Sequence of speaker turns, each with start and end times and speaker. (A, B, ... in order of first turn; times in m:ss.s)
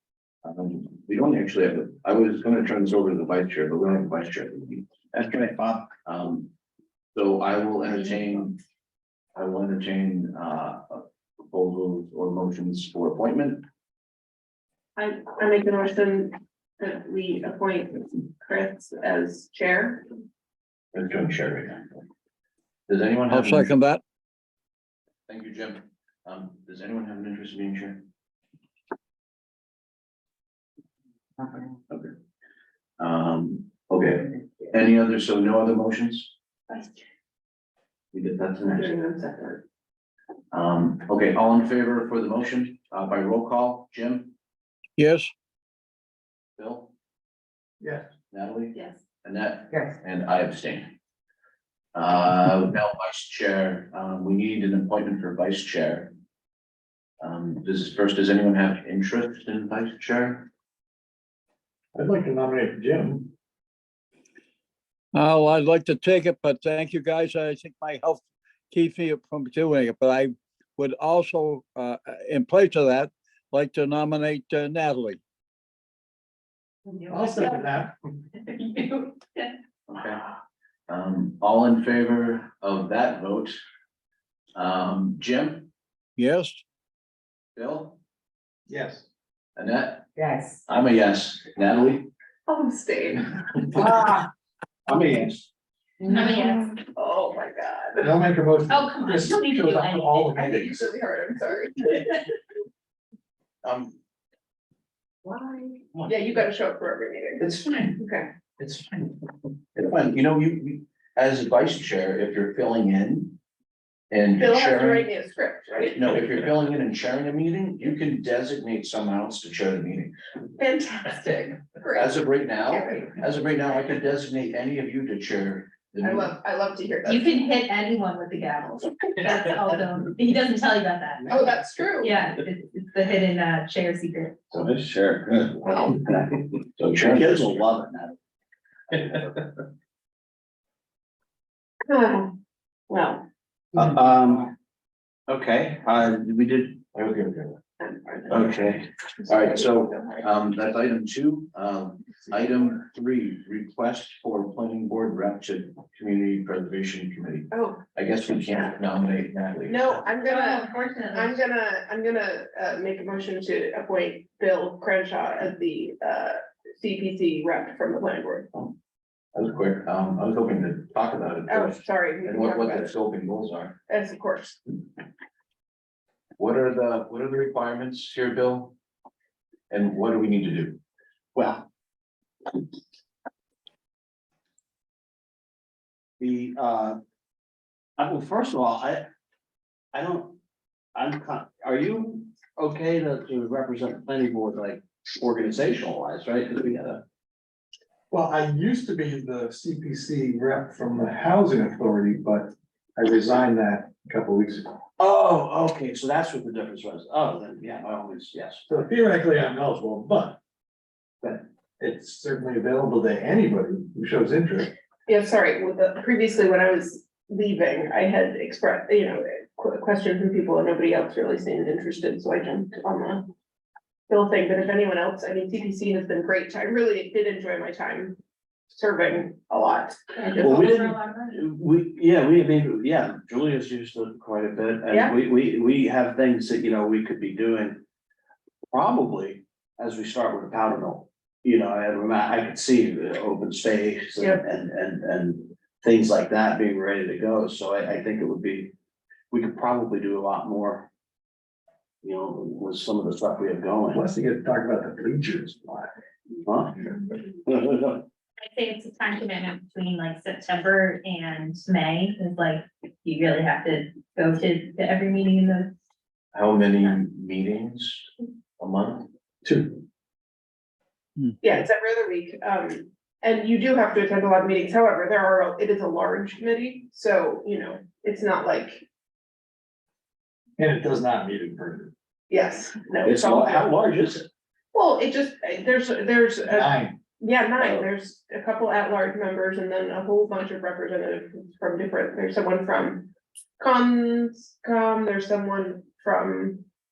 0:00.4-0:04.9 A
0:05.1-0:05.9 B
0:06.0-0:06.5 A
0:07.2-0:08.6 A
0:09.4-0:13.6 A
0:15.0-0:20.0 C
0:20.9-0:21.9 A
0:22.9-0:23.7 A
0:23.3-0:24.0 D
0:25.3-0:28.1 A
0:33.0-0:36.3 A
0:36.7-0:37.0 C
0:38.1-0:39.0 A
0:38.7-0:39.6 C
0:40.5-0:44.3 A
0:45.0-0:45.3 D
0:46.6-0:46.9 A
0:47.8-0:48.0 B
0:48.3-0:50.9 A
0:48.7-0:49.0 C
0:52.0-0:56.1 A
0:57.2-1:00.5 A
1:02.0-1:03.3 B
1:05.1-1:15.2 D
1:16.9-1:17.6 E
1:17.1-1:17.9 B
1:18.4-1:19.5 E
1:19.9-1:20.2 A
1:20.9-1:23.6 A
1:24.6-1:25.7 A
1:26.2-1:26.6 D
1:27.6-1:28.0 A
1:28.7-1:29.0 B
1:29.6-1:30.1 A
1:30.2-1:30.6 E
1:30.7-1:32.1 A
1:32.5-1:33.3 C
1:33.8-1:34.1 B
1:34.9-1:35.4 F
1:36.0-1:36.7 E
1:36.1-1:38.1 C
1:38.0-1:40.9 B
1:38.7-1:40.3 E
1:40.3-1:42.1 C
1:43.6-1:44.0 A
1:45.2-1:47.4 C
1:47.4-1:48.0 A
1:48.0-1:48.3 C
1:48.6-1:49.2 A
1:49.7-1:53.4 A
1:54.1-1:55.1 A
1:54.4-1:56.2 C
1:55.9-2:00.1 A
2:00.6-2:03.1 C
2:02.0-2:06.3 A
2:06.0-2:07.5 C
2:07.0-2:11.4 E
2:11.3-2:12.2 C
2:12.0-2:14.4 E
2:14.5-2:18.2 F
2:15.7-2:15.9 C
2:16.8-2:17.6 A
2:18.9-2:19.5 F
2:21.9-2:22.3 C
2:22.9-2:23.3 C
2:23.7-2:24.5 F
2:25.3-2:26.8 F
2:26.9-2:27.6 A
2:27.8-2:28.5 C
2:28.3-2:28.9 F
2:29.2-2:30.2 C
2:29.2-2:40.0 A
2:37.5-2:37.8 C
2:39.7-2:48.5 C
2:40.2-2:41.4 E
2:49.3-2:53.8 A
2:51.5-2:52.9 C
2:53.9-2:54.6 C
2:56.4-2:58.8 A
2:59.7-3:00.8 A
3:01.4-3:01.7 F
3:06.2-3:07.0 F
3:08.0-3:09.1 F
3:09.9-3:10.4 F
3:11.0-3:17.0 F
3:18.1-3:24.8 B
3:25.0-3:28.6 F
3:28.7-3:30.4 B
3:31.2-3:34.7 B
3:35.1-3:43.2 C
3:44.1-3:48.2 C
3:48.7-3:50.7 C
3:50.2-3:51.4 E
3:50.4-3:57.8 F
3:54.9-3:55.2 C
3:58.7-4:08.7 F
4:04.2-4:04.4 C
4:09.3-4:10.9 F
4:12.0-4:14.0 F
4:13.9-4:15.9 B
4:16.4-4:16.8 F
4:17.4-4:18.1 F
4:18.4-4:25.7 E
4:26.3-4:28.1 A
4:28.6-4:29.1 A
4:29.4-4:29.8 B
4:31.4-4:38.8 C
4:40.6-4:41.9 B
4:42.3-4:43.7 C
4:43.0-4:44.3 F
4:44.7-4:53.1 C
4:46.5-4:47.0 B
4:53.6-4:56.6 C